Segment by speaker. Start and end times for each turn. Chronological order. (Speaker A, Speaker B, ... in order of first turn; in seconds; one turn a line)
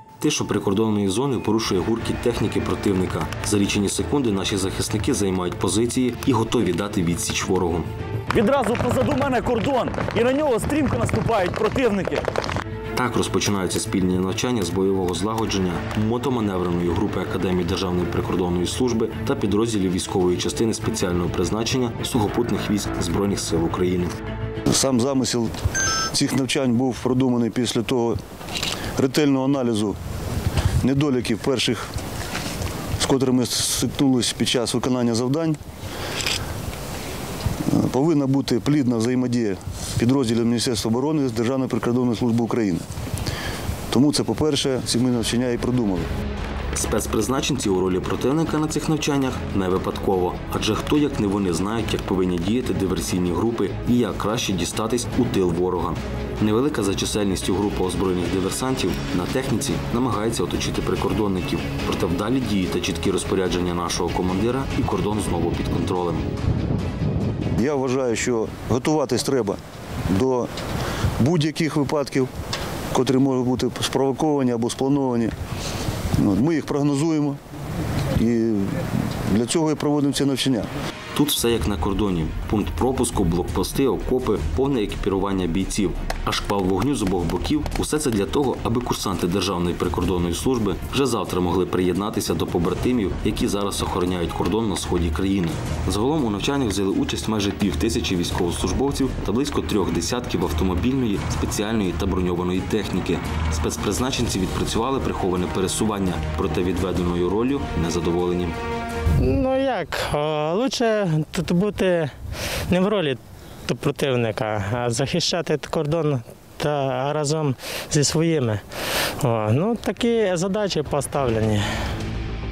Speaker A: 0.2-7.9
Speaker B: 8.3-12.2
Speaker A: 12.9-24.1
Speaker C: 24.7-25.5
Speaker C: 26.1-28.2
Speaker C: 29.0-30.0
Speaker C: 30.8-31.9
Speaker C: 33.0-35.6
Speaker C: 37.7-42.8
Speaker C: 43.9-46.1
Speaker A: 46.8-66.3
Speaker C: 67.6-69.6
Speaker C: 70.1-70.5
Speaker C: 71.2-72.3
Speaker C: 72.9-75.3
Speaker C: 76.2-77.4
Speaker C: 78.2-80.7
Speaker A: 81.1-108.6
Speaker D: 109.2-112.1
Speaker D: 112.7-118.6
Speaker D: 119.2-121.7